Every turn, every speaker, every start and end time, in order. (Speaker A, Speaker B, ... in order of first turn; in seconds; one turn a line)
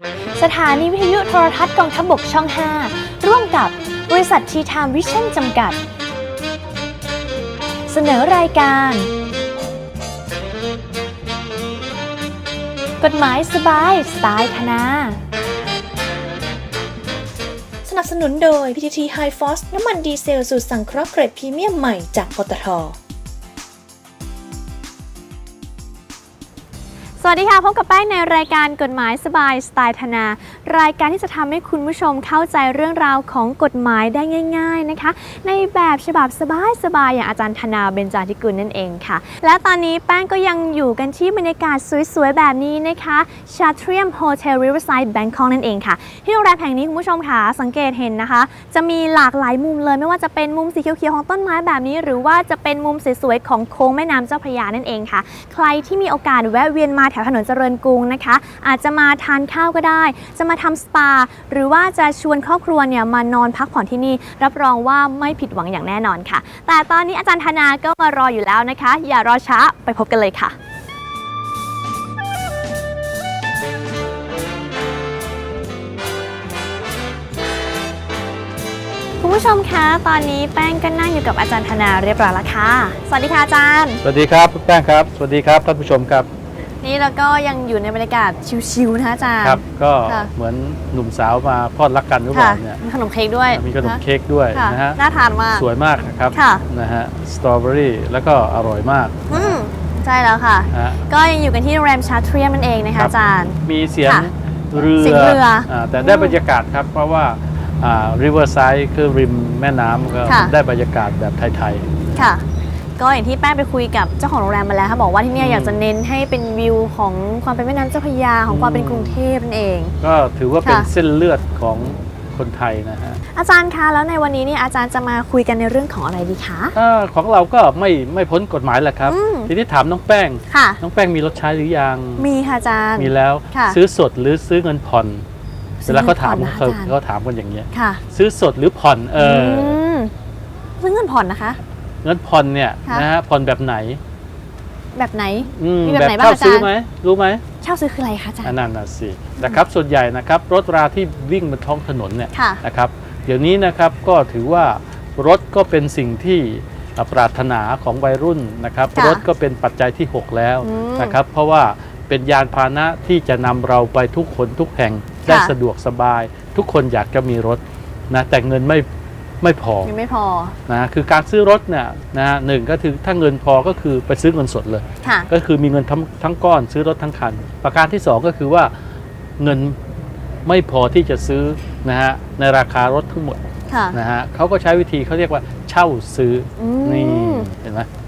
Speaker A: 0.4-5.8
Speaker A: 7.9-9.1
Speaker A: 13.0-15.2
Speaker B: 17.9-23.0
Speaker A: 27.2-70.5
Speaker A: 79.2-84.0
Speaker C: 84.0-86.3
Speaker A: 86.8-90.3
Speaker C: 89.4-92.8
Speaker A: 92.3-94.0
Speaker C: 93.5-95.0
Speaker A: 94.5-95.7
Speaker C: 95.5-99.6
Speaker A: 96.3-96.6
Speaker A: 99.3-104.3
Speaker C: 100.7-101.0
Speaker C: 103.0-111.8
Speaker A: 105.0-106.4
Speaker A: 110.3-110.5
Speaker A: 112.2-112.5
Speaker A: 113.0-120.0
Speaker C: 115.4-115.8
Speaker C: 118.5-119.2
Speaker C: 120.0-123.2
Speaker A: 120.6-120.9
Speaker A: 123.3-126.8
Speaker C: 126.8-132.3
Speaker A: 129.1-129.5
Speaker A: 130.5-130.8
Speaker A: 132.2-133.8
Speaker C: 133.0-135.2
Speaker A: 135.8-136.9
Speaker C: 135.9-139.8
Speaker A: 137.7-138.0
Speaker A: 139.2-140.1
Speaker A: 140.8-141.6
Speaker C: 142.0-144.0
Speaker A: 144.9-146.7
Speaker C: 145.5-147.4
Speaker A: 147.6-148.6
Speaker C: 148.4-168.9
Speaker A: 152.3-152.6
Speaker A: 158.9-159.2
Speaker A: 160.6-161.2
Speaker A: 165.3-165.6
Speaker C: 169.4-169.9
Speaker A: 169.8-170.6
Speaker C: 170.7-178.7
Speaker A: 175.0-175.3
Speaker C: 179.4-179.8
Speaker C: 180.5-183.4
Speaker A: 183.7-184.0
Speaker C: 183.9-187.9
Speaker A: 186.6-187.5